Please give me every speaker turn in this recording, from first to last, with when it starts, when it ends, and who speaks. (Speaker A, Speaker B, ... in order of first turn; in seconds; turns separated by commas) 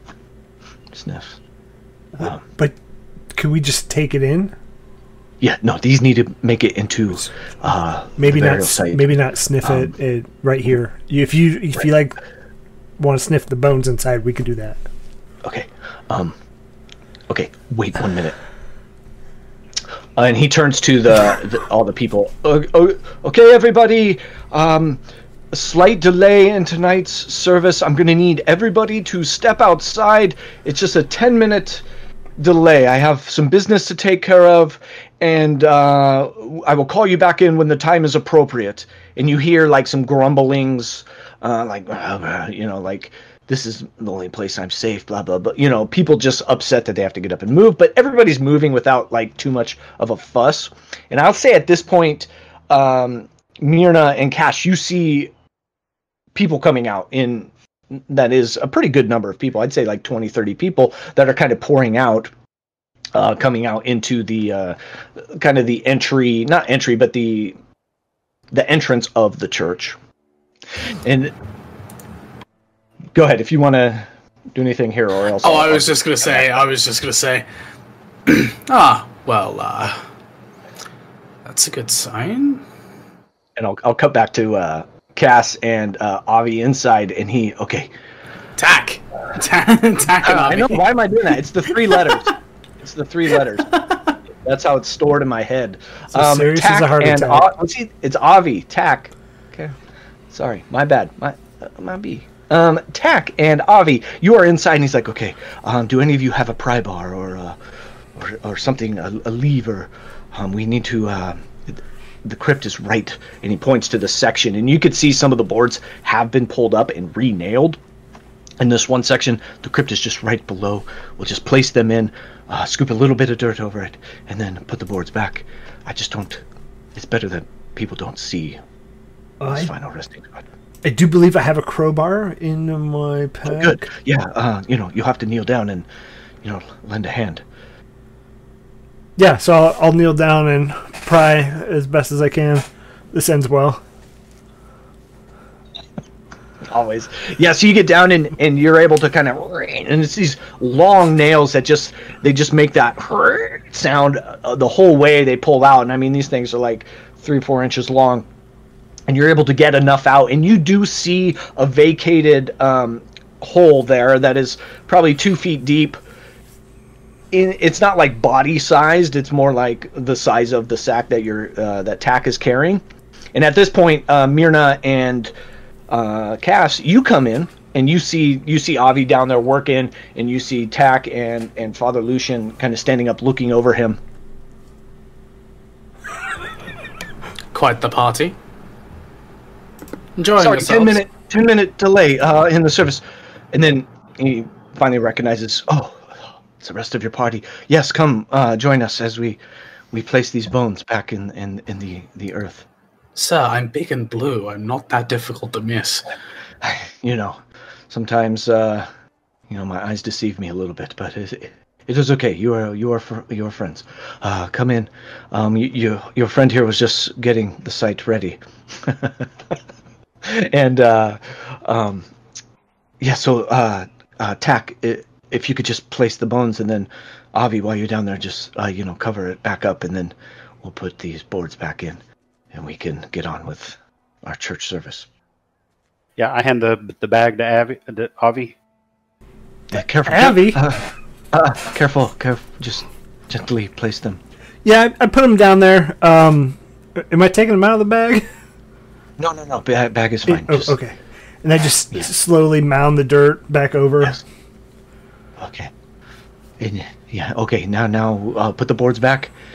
Speaker A: 0.9-1.4, Speaker B: 2.1-2.8, Speaker B: 3.3-4.5, Speaker A: 5.4-9.1, Speaker B: 8.2-12.2, Speaker A: 9.6-9.9, Speaker B: 13.0-14.8, Speaker A: 15.4-16.3, Speaker A: 17.3-18.4, Speaker A: 20.1-31.9, Speaker A: 32.4-55.3, Speaker A: 56.3-62.3, Speaker A: 63.1-67.5, Speaker A: 68.5-70.0, Speaker A: 70.8-71.3, Speaker A: 73.1-76.7, Speaker C: 75.4-77.5, Speaker C: 78.3-80.0, Speaker C: 81.4-82.6, Speaker A: 83.5-87.9, Speaker C: 88.6-90.8, Speaker A: 90.2-93.7, Speaker A: 94.4-99.8, Speaker B: 96.1-97.5, Speaker A: 100.3-107.6, Speaker A: 108.1-117.8, Speaker A: 118.6-126.4, Speaker A: 126.9-128.6, Speaker B: 129.4-129.7, Speaker A: 129.5-130.4, Speaker B: 130.8-133.8, Speaker A: 133.4-135.9, Speaker A: 136.4-137.4, Speaker B: 139.2-143.8, Speaker A: 146.7-158.2, Speaker A: 159.1-166.0, Speaker A: 167.3-172.8, Speaker A: 173.3-175.3, Speaker A: 175.9-184.0, Speaker C: 187.5-188.3, Speaker C: 190.2-191.0, Speaker A: 190.4-199.4, Speaker A: 199.9-202.7, Speaker C: 203.1-206.1, Speaker A: 206.6-208.9, Speaker A: 209.5-219.6, Speaker A: 220.2-222.1, Speaker A: 223.0-235.1, Speaker D: 236.2-238.5, Speaker A: 239.7-244.2, Speaker B: 240.1-240.8, Speaker B: 244.6-248.3, Speaker A: 249.2-250.8, Speaker B: 250.3-254.2, Speaker A: 255.4-255.7, Speaker A: 256.6-259.3